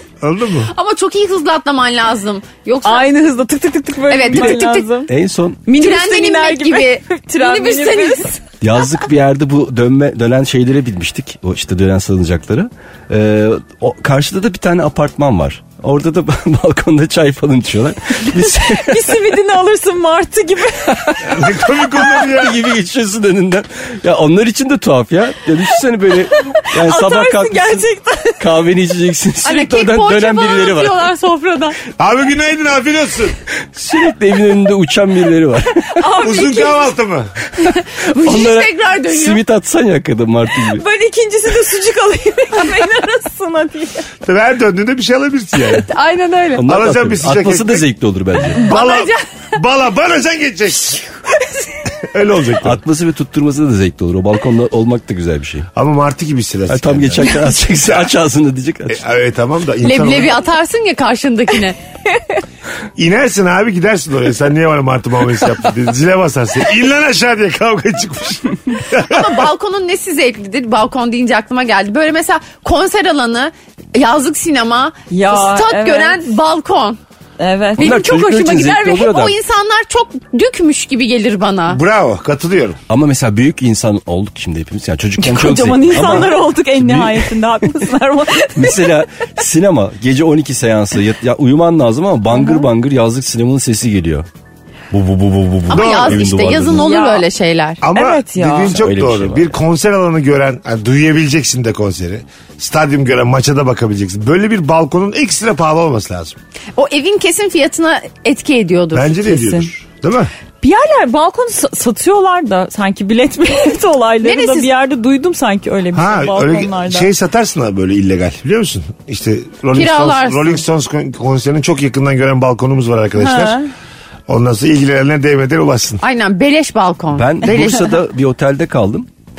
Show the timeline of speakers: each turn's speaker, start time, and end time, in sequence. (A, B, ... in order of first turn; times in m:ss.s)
0:00.2-0:00.7 A
0:00.7-0:03.1 B
0:02.8-0:05.1 C
0:04.1-0:04.9 B
0:04.3-0:05.6 D
0:05.7-0:08.4 B
0:05.7-0:08.4 C
0:08.6-0:19.2 D
0:18.3-0:21.6 C
0:20.9-0:21.2 D
0:21.2-0:22.6 A
0:22.0-0:27.9 D
0:26.4-0:28.4 C
0:28.4-0:31.1 D
0:29.4-0:31.8 B
0:32.0-0:33.4 A
0:33.7-0:36.1 D
0:35.9-0:36.9 C
0:36.2-0:37.3 A
0:37.6-0:39.4 B
0:37.6-0:40.8 D
0:40.6-0:44.1 C
0:44.2-0:45.9 A
0:45.8-0:46.6 B
0:46.6-0:48.6 D
0:46.6-0:47.9 A
0:48.6-0:51.1 A
0:48.6-0:49.2 B
0:52.0-0:52.8 A
0:52.6-0:55.7 D
0:55.8-0:58.1 A
0:56.7-0:59.0 D
0:58.9-1:00.4 A
0:59.8-1:01.8 B
1:03.0-1:09.5 A
1:08.9-1:17.0 B
1:15.1-1:16.3 C
1:17.4-1:17.9 C
1:17.8-1:19.4 D
1:17.8-1:21.8 B
1:21.7-1:22.8 A
1:22.9-1:27.3 D
1:25.2-1:29.0 C
1:28.6-1:34.3 D
1:32.3-1:32.7 C
1:34.9-1:36.9 D
1:35.7-1:37.8 B
1:35.7-1:36.3 A
1:36.8-1:37.3 C
1:37.8-1:46.4 A
1:37.9-1:38.8 C
1:38.7-1:39.5 D
1:46.8-1:49.7 B
1:48.9-1:50.3 A
1:50.6-1:57.1 C
1:54.2-1:54.7 B
1:55.9-2:03.6 A
1:59.7-2:00.6 B
2:03.2-2:03.7 C
2:04.3-2:06.0 A
2:06.0-2:07.8 B
2:07.1-2:09.1 D